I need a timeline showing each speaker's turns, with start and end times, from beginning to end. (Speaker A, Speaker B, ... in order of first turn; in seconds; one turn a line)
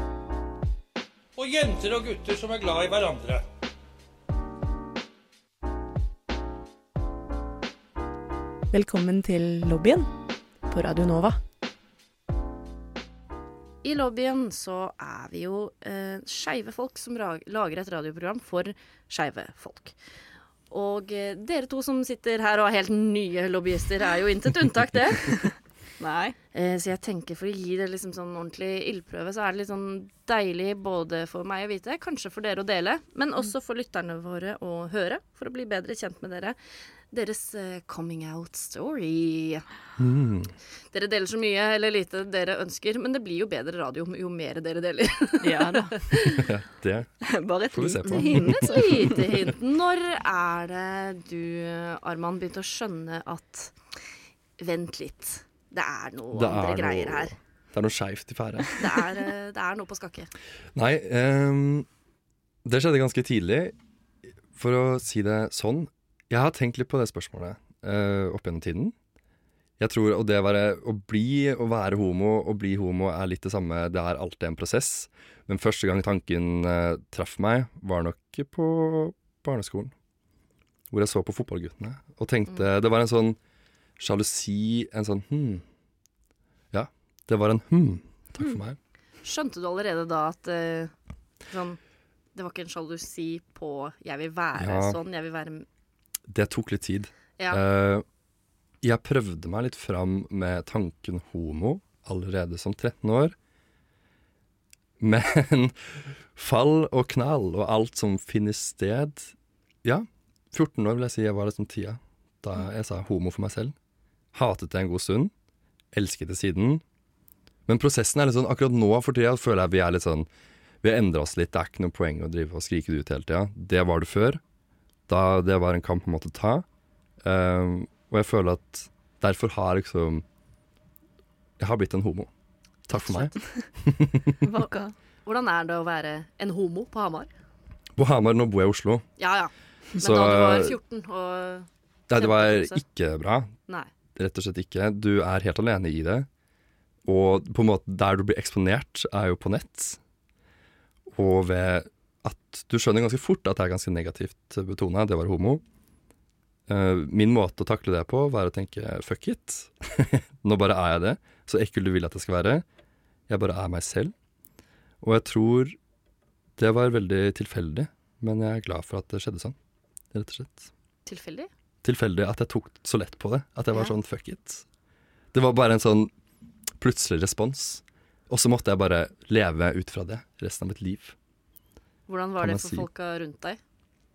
Speaker A: 1.4-3.4
Speaker B: 8.7-10.1
Speaker B: 10.7-11.4
Speaker C: 13.8-19.9
Speaker C: 20.7-25.5
Speaker D: 26.0-26.4
Speaker C: 26.5-36.6
Speaker C: 37.1-39.6
Speaker E: 40.0-40.5
Speaker C: 40.9-46.4
Speaker D: 45.4-46.1
Speaker E: 46.3-47.1
Speaker D: 47.2-49.3
Speaker E: 47.7-49.1
Speaker C: 48.0-53.8
Speaker C: 54.6-57.3
Speaker E: 56.3-58.7
Speaker C: 58.8-60.3
Speaker E: 60.8-61.9
Speaker E: 62.6-63.8
Speaker E: 64.5-69.0
Speaker E: 69.8-79.9
Speaker E: 80.9-83.4
Speaker E: 84.0-85.6
Speaker E: 86.7-88.8
Speaker C: 89.2-90.9
Speaker C: 91.5-91.8
Speaker C: 92.3-95.7
Speaker E: 94.6-95.0
Speaker E: 96.3-98.0
Speaker E: 98.8-103.3
Speaker E: 105.0-113.8
Speaker E: 114.3-115.3
Speaker E: 115.9-116.8
Speaker E: 117.7-120.3
Speaker E: 120.8-124.4
Speaker E: 125.1-126.7
Speaker E: 127.2-130.2
Speaker E: 131.6-132.3
Speaker E: 132.9-134.4
Speaker D: 134.4-134.9
Speaker C: 135.2-137.3
Speaker E: 138.0-139.1
Speaker C: 139.2-142.8
Speaker E: 140.0-140.8
Speaker E: 142.1-143.5
Speaker E: 144.2-146.3
Speaker E: 147.1-150.0
Speaker E: 151.1-155.6
Speaker E: 156.7-162.7
Speaker E: 163.3-164.1
Speaker E: 165.0-165.8
Speaker E: 166.6-169.6
Speaker E: 170.1-170.7
Speaker C: 171.1-171.5
Speaker E: 171.8-174.7
Speaker E: 175.3-176.1
Speaker E: 176.8-181.2
Speaker C: 182.1-183.6
Speaker E: 182.4-182.9